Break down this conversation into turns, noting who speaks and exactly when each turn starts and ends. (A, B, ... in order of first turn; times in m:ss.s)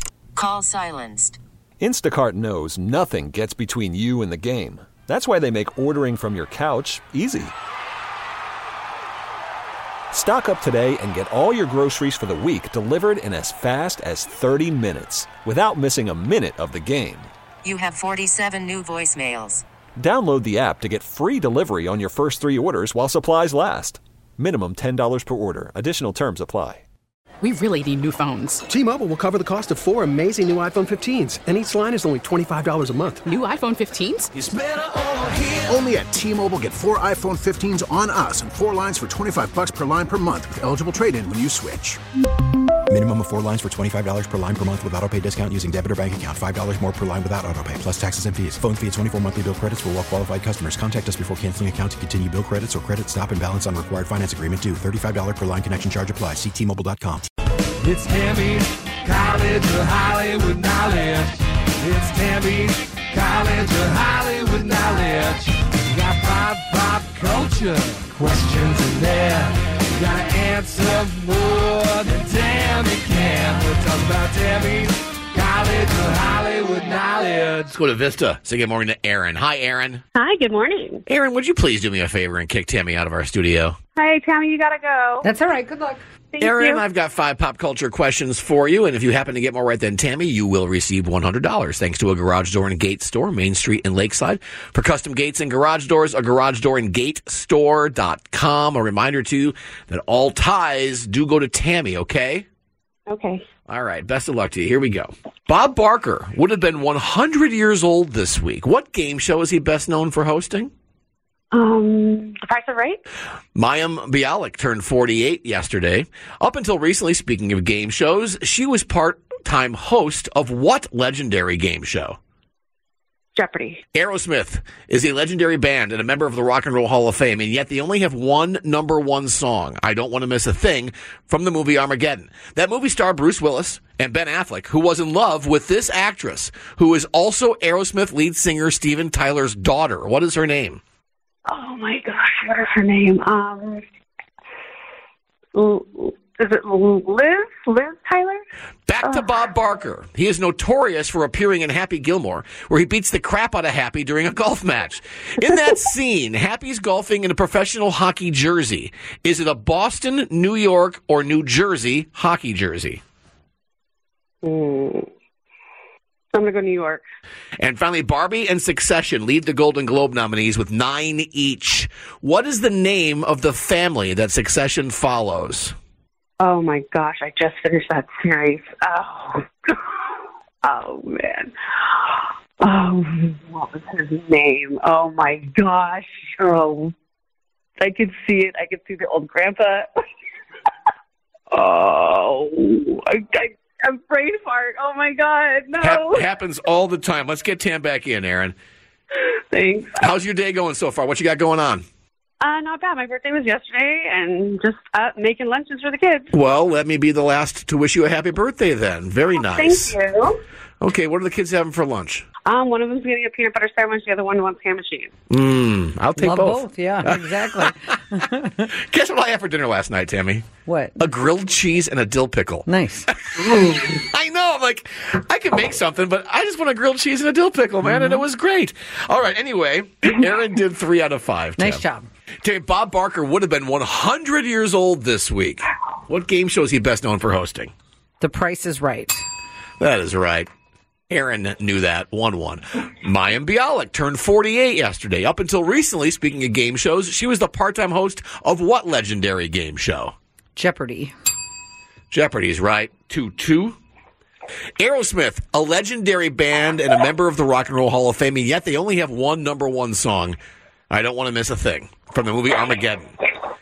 0:00.4-0:01.4 A
0:01.8-0:07.5 B
0:10.1-0:17.3 B
0:17.6-0:19.6 A
0:20.0-0:26.8 B
0:27.4-0:28.6 C
0:28.7-0:33.3 D
0:33.2-0:34.3 C
0:34.3-0:42.0 E
0:42.9-0:57.2 F
0:57.8-1:17.7 G
1:17.7-1:20.0 H
1:20.1-1:21.0 I
1:21.0-1:23.8 H
1:24.0-1:25.3 I
1:25.2-1:26.0 J
1:26.3-1:26.8 I
1:26.4-1:42.4 H
1:43.1-1:43.4 I
1:43.7-1:50.7 H
1:51.5-1:53.0 I
1:53.5-2:02.2 H
2:03.3-2:03.8 I
2:03.9-2:20.8 H
2:21.5-2:23.8 I
2:25.5-2:28.4 I
2:28.9-2:43.0 H
2:29.0-2:29.4 I
2:44.4-2:45.0 I
2:46.3-2:47.0 I
2:47.6-2:55.7 H
2:56.4-2:59.8 I
3:00.6-3:06.9 I
3:07.8-3:09.9 I
3:11.5-3:16.2 I
3:15.8-3:18.6 H
3:19.2-3:20.1 I
3:20.0-3:21.8 H
3:22.4-3:26.3 I
3:26.3-3:30.0 H
3:29.4-3:30.4 I
3:30.8-3:32.2 H
3:32.4-3:35.1 I
3:35.3-3:38.0 H
3:36.2-3:38.6 J
3:38.7-3:40.4 H
3:40.6-3:41.0 J
3:41.0-3:51.8 H
3:42.6-3:43.0 J
3:47.8-3:48.2 J
3:51.6-3:52.1 J
3:52.4-3:57.7 H
3:58.2-3:59.1 J
3:59.8-4:00.5 H
4:01.1-4:10.1 H
4:10.6-4:11.1 J
4:12.1-4:13.8 H
4:14.8-4:20.4 H
4:20.9-4:23.1 H